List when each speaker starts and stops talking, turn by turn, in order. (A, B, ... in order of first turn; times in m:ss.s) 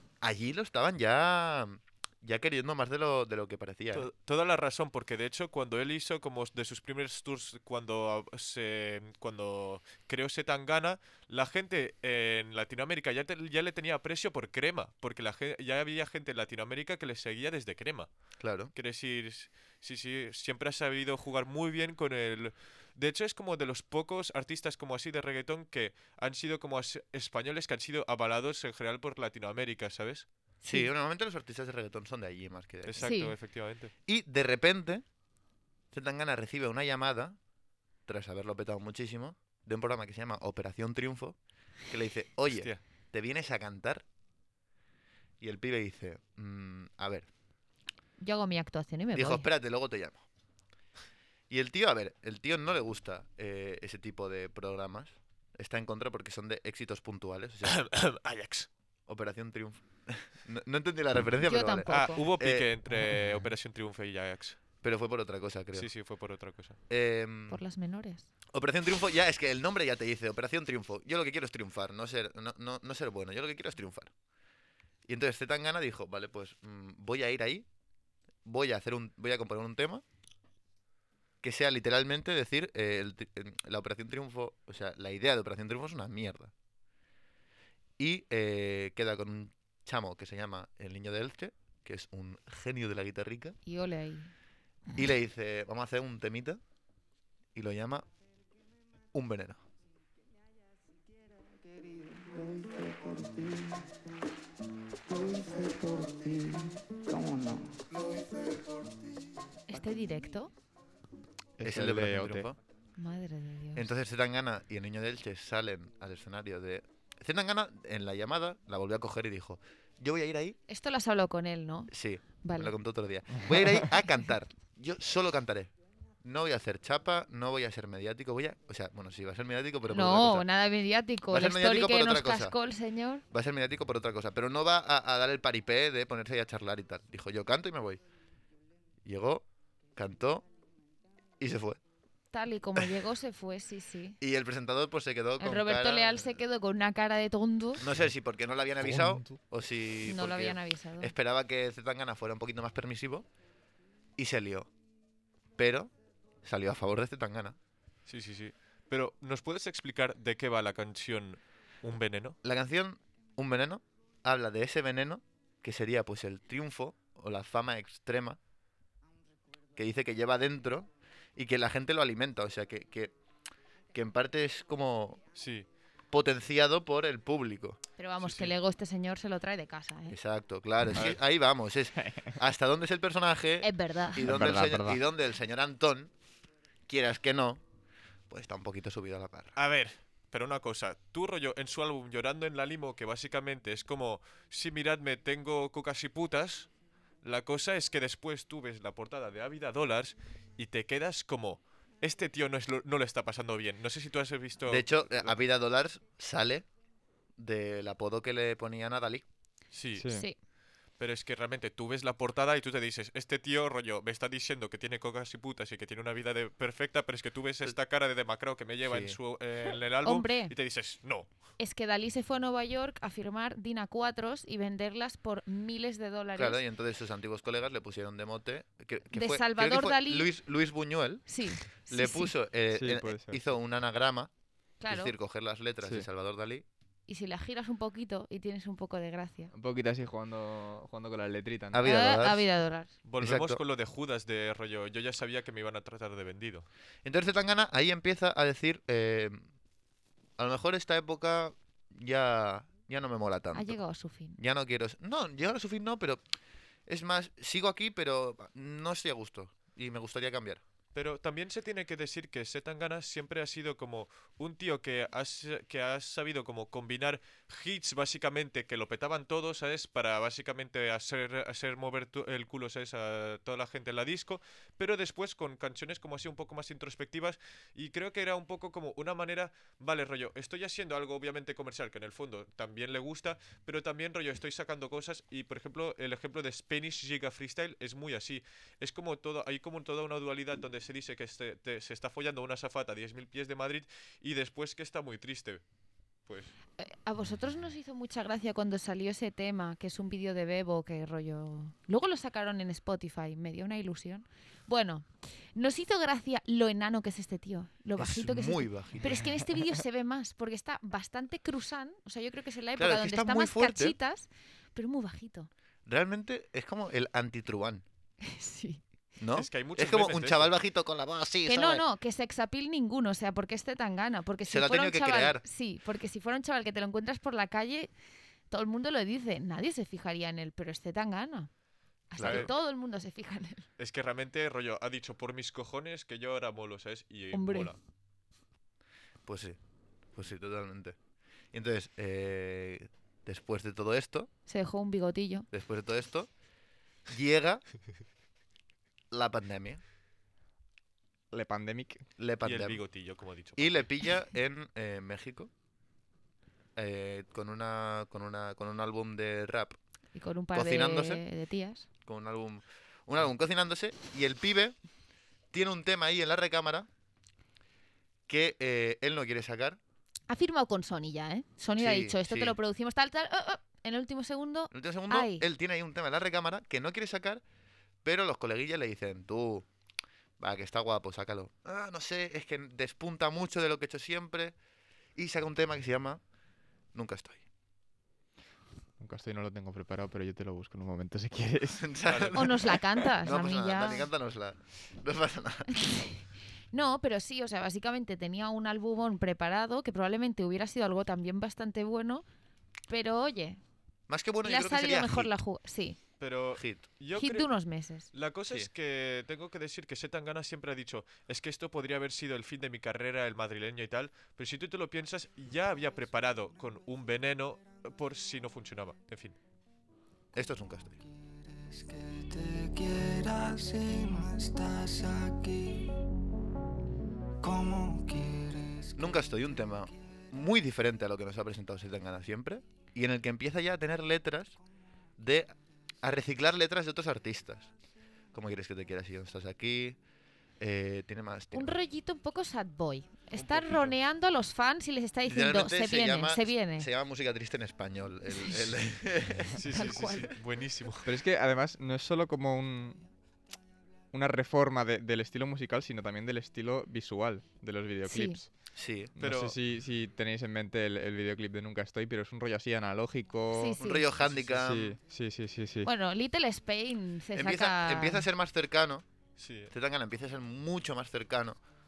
0:00.2-0:04.1 A
0:03.9-0:18.1 B
0:18.4-0:18.7 A
0:18.7-0:30.2 B
0:30.6-0:30.9 C
0:30.7-0:33.1 A
0:32.8-0:33.9 B
0:33.0-0:33.3 C
0:34.0-0:35.0 A
0:35.9-0:37.4 A
0:38.0-0:41.4 A
0:41.9-0:44.0 A
0:42.5-0:42.8 B
0:45.4-0:47.3 A
0:48.2-0:49.5 C
0:49.1-0:50.2 A
0:51.5-0:57.8 A
0:57.6-0:58.7 B
0:59.1-1:02.7 A
1:01.4-1:02.2 C
1:01.9-1:04.6 B
1:04.8-1:05.9 A
1:05.7-1:06.8 B
1:06.9-1:07.6 A
1:07.5-1:08.3 C
1:08.5-1:14.1 A
1:15.1-1:17.6 A
1:18.4-1:20.0 A
1:21.4-1:26.5 A
1:28.0-1:33.6 A
1:33.6-1:34.3 C
1:34.9-1:36.6 A
1:37.5-1:38.0 A
1:39.1-1:39.6 A
1:41.6-1:43.9 D
1:45.1-1:49.0 D
1:49.7-1:50.5 C
1:51.6-1:52.5 E
1:51.6-1:52.6 A
1:53.0-1:53.9 C
1:53.7-2:00.6 A
2:00.7-2:02.7 C
2:01.9-2:05.7 A
2:06.2-2:10.4 A
2:09.9-2:13.2 C
2:11.3-2:12.5 A
2:13.3-2:18.0 A
2:19.0-2:19.4 A
2:20.0-2:20.4 A
2:21.4-2:21.8 A
2:22.3-2:24.2 C
2:24.2-2:26.4 A
2:25.4-2:27.8 C
2:27.8-2:33.2 A
2:28.9-2:29.2 E
2:30.0-2:31.1 C
2:34.2-2:34.7 A
2:35.6-2:35.9 A
2:36.4-2:37.6 A
2:38.1-2:42.4 B
2:42.4-2:48.4 A
2:49.8-2:53.1 A
2:53.9-2:55.2 A
2:55.4-2:55.6 B
2:56.1-2:57.8 A
2:58.0-3:00.2 C
2:58.2-2:58.5 B
3:00.1-3:06.1 A
3:00.9-3:01.2 B
3:03.6-3:04.3 C
3:04.2-3:05.0 E
3:06.9-3:07.6 A
3:08.3-3:09.5 A
3:09.6-3:16.7 B
3:17.2-3:25.3 B
3:24.7-3:26.6 A
3:27.4-3:29.2 A
3:29.7-3:30.1 B
3:29.9-3:30.2 E
3:31.0-3:41.3 B
3:38.8-3:39.2 A
3:40.0-3:40.5 C
3:41.6-3:46.6 C
3:46.4-3:51.2 A
3:49.1-3:50.3 C
3:51.3-3:52.3 C
3:51.9-3:54.3 A
3:52.7-3:53.5 E
3:54.8-3:55.1 C
3:54.9-3:56.6 A
3:55.8-3:56.1 E
3:57.1-3:59.5 C
3:59.5-4:02.1 E
4:01.7-4:02.4 A
4:01.8-4:02.9 C
4:03.0-4:06.7 B
4:03.2-4:03.6 A
4:07.0-4:09.4 A
4:10.4-4:13.8 A
4:13.5-4:14.4 C
4:14.4-4:16.2 A
4:16.9-4:20.6 A
4:20.9-4:55.6 B
4:56.3-4:56.5 B
4:56.8-5:15.5 C
5:08.0-5:09.3 A
5:12.8-5:14.0 A
5:15.8-5:17.8 A
5:18.2-5:18.8 C
5:19.2-5:21.8 A
5:19.3-5:20.5 B
5:21.4-5:27.9 C
5:24.5-5:25.4 A
5:28.5-5:31.5 C
5:32.1-5:33.7 C
5:32.1-5:32.5 A
5:32.2-5:32.5 B
5:33.8-5:37.8 B
5:37.3-5:37.7 C
5:39.2-5:39.6 A
5:40.1-5:41.0 A
5:41.5-5:44.3 A
5:44.5-5:45.5 C
5:45.5-5:46.3 A
5:47.1-5:47.6 A
5:49.1-5:49.8 A
5:51.3-5:52.0 E
5:52.2-5:52.8 A
5:52.4-5:53.8 B
5:53.6-5:55.5 A
5:56.8-5:59.8 A
6:00.1-6:01.9 C
6:00.5-6:01.2 A
6:02.0-6:04.8 A
6:05.5-6:06.9 A
6:08.3-6:09.8 A
6:10.3-6:15.5 C
6:11.8-6:12.6 A
6:14.7-6:17.4 A
6:18.0-6:19.7 A
6:20.4-6:24.5 A
6:25.2-6:26.2 A
6:26.9-6:27.4 A
6:29.0-6:32.0 E
6:31.8-6:35.7 A
6:32.0-6:32.5 B
6:32.3-6:34.1 C
6:35.7-6:42.2 C
6:42.9-6:43.6 C
6:44.1-6:45.3 A
6:44.4-6:46.0 C
6:46.2-6:47.5 B
6:46.6-6:46.8 A
6:47.2-6:48.1 C
6:48.1-6:59.4 B
7:00.3-7:01.0 A
7:01.2-7:06.0 D
7:07.4-7:09.3 D
7:09.0-7:14.6 A
7:15.2-7:17.7 A
7:18.3-7:20.0 A
7:20.6-7:21.8 A
7:21.5-7:26.9 C
7:23.3-7:23.9 B
7:25.3-7:29.6 A
7:29.5-7:31.1 B
7:29.7-7:30.3 C
7:31.0-7:33.1 E
7:34.1-7:38.5 E
7:38.1-7:38.4 C
7:38.8-7:39.1 A
7:39.2-7:45.9 E
7:39.2-7:39.6 B
7:43.5-7:44.1 C
7:43.8-7:45.0 A
7:45.8-7:48.3 C
7:47.3-7:49.0 A
7:49.4-7:49.7 B
7:49.7-7:51.6 A